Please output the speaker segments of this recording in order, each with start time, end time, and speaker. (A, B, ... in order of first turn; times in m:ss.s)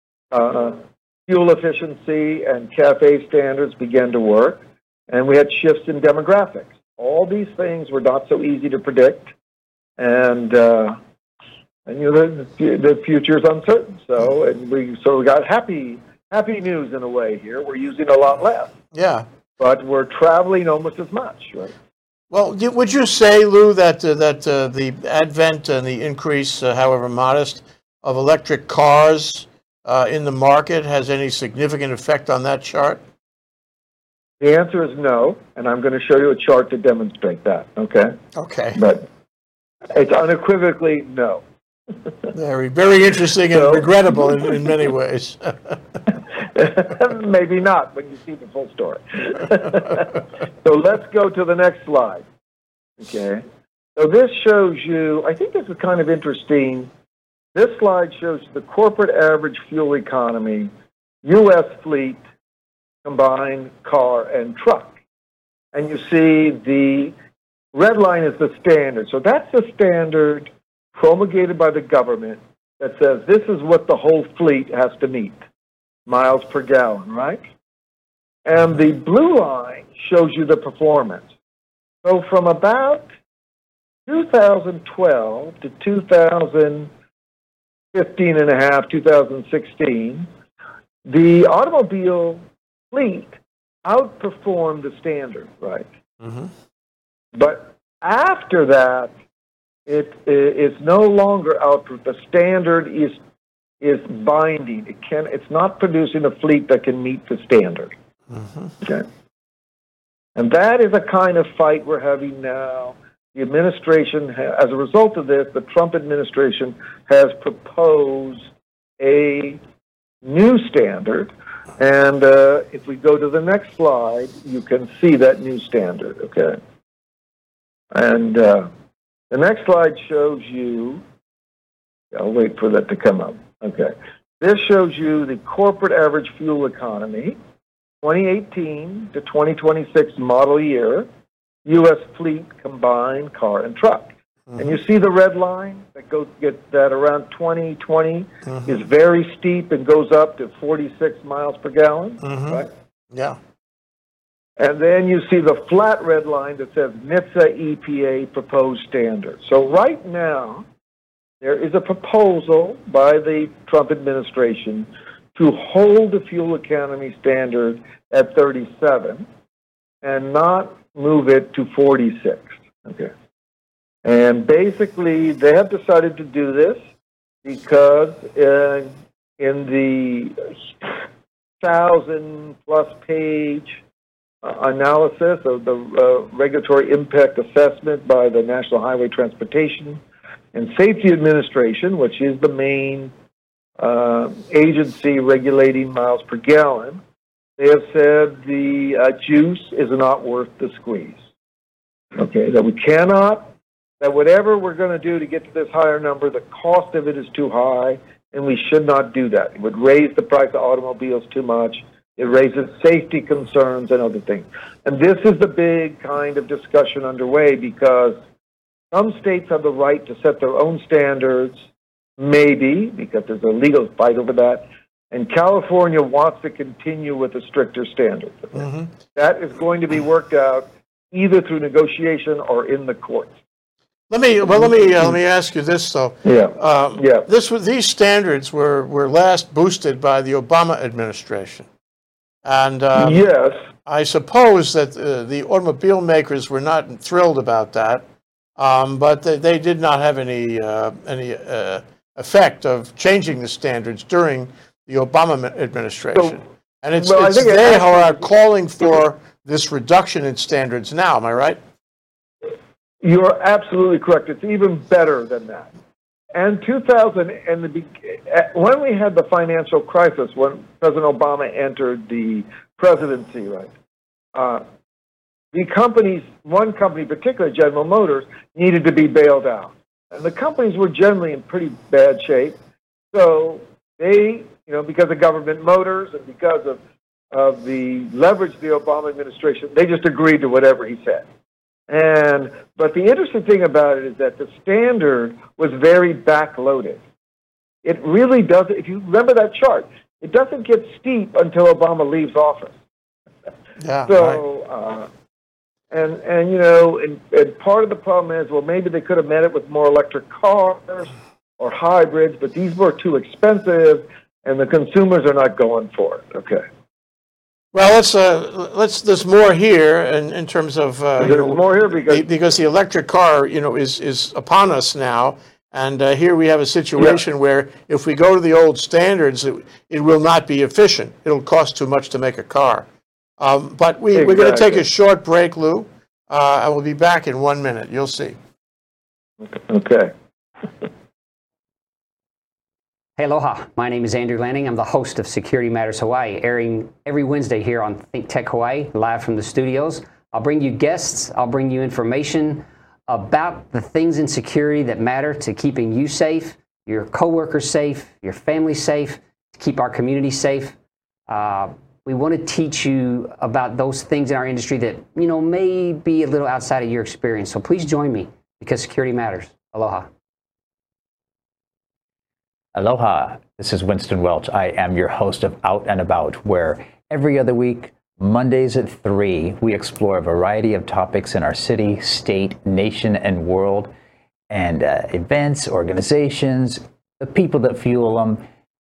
0:00.3-0:09.3 A
0:10.0-0:11.0 A
0:11.9-0:18.7 A
0:18.9-0:19.3 B
0:19.6-0:21.7 A
0:22.3-0:33.0 B
0:34.4-0:38.2 A
0:38.4-0:38.8 B
0:38.8-0:39.1 A
0:39.9-0:41.4 A
0:42.3-0:45.8 B
0:43.5-0:44.6 A
0:46.5-0:52.2 A
0:53.0-0:53.4 A
0:54.0-0:56.9 A
0:57.6-1:00.7 A
1:01.2-1:02.2 A
1:03.0-1:04.9 A
1:05.7-1:07.1 A
1:07.7-1:15.4 A
1:16.1-1:17.4 A
1:18.5-1:21.3 A
1:22.0-1:23.0 A
1:24.1-1:26.9 A
1:27.9-1:30.3 A
1:31.0-1:35.9 A
1:36.2-1:36.5 B
1:37.3-1:39.1 A
1:39.9-1:43.2 A
1:43.8-1:47.9 A
1:48.3-1:48.7 B
1:50.4-1:59.6 A
2:00.2-2:06.6 A
2:07.9-2:08.7 A
2:09.3-2:11.0 A
2:12.1-2:17.4 A
2:18.0-2:21.1 A
2:21.6-2:32.7 A
2:32.2-2:33.4 B
2:34.6-2:40.6 A
2:41.4-2:49.3 A
2:50.0-2:53.1 A
2:54.0-2:56.8 A
2:57.4-3:00.9 A
3:01.6-3:03.8 A
3:04.4-3:10.0 A
3:10.5-3:13.1 A
3:13.8-3:17.0 A
3:17.6-3:21.2 A
3:22.2-3:38.2 A
3:38.9-3:41.6 A
3:42.2-3:53.3 A
3:48.6-3:48.9 B
3:54.1-4:01.7 B
3:54.5-3:55.2 A
3:56.2-3:57.3 A
4:02.4-4:03.3 B
4:03.0-4:03.6 A
4:03.8-4:08.0 B
4:08.6-4:21.6 B
4:16.2-4:16.4 A
4:17.0-4:18.3 A
4:23.0-4:25.7 A
4:26.3-4:33.7 A
4:34.4-4:34.6 A
4:35.5-4:42.6 A
4:43.1-4:46.8 A
4:47.3-4:51.2 A
4:51.9-4:57.0 A
4:57.8-5:02.8 A
5:03.8-5:04.4 B
5:04.1-5:05.1 A
5:05.9-5:16.6 A
5:17.7-5:32.9 B
5:21.2-5:22.3 A
5:33.4-5:38.4 B
5:34.2-5:34.8 A
5:39.4-5:40.1 A
5:43.2-6:00.7 C
6:01.3-6:10.1 C
6:12.7-6:23.9 D
6:24.5-6:28.4 D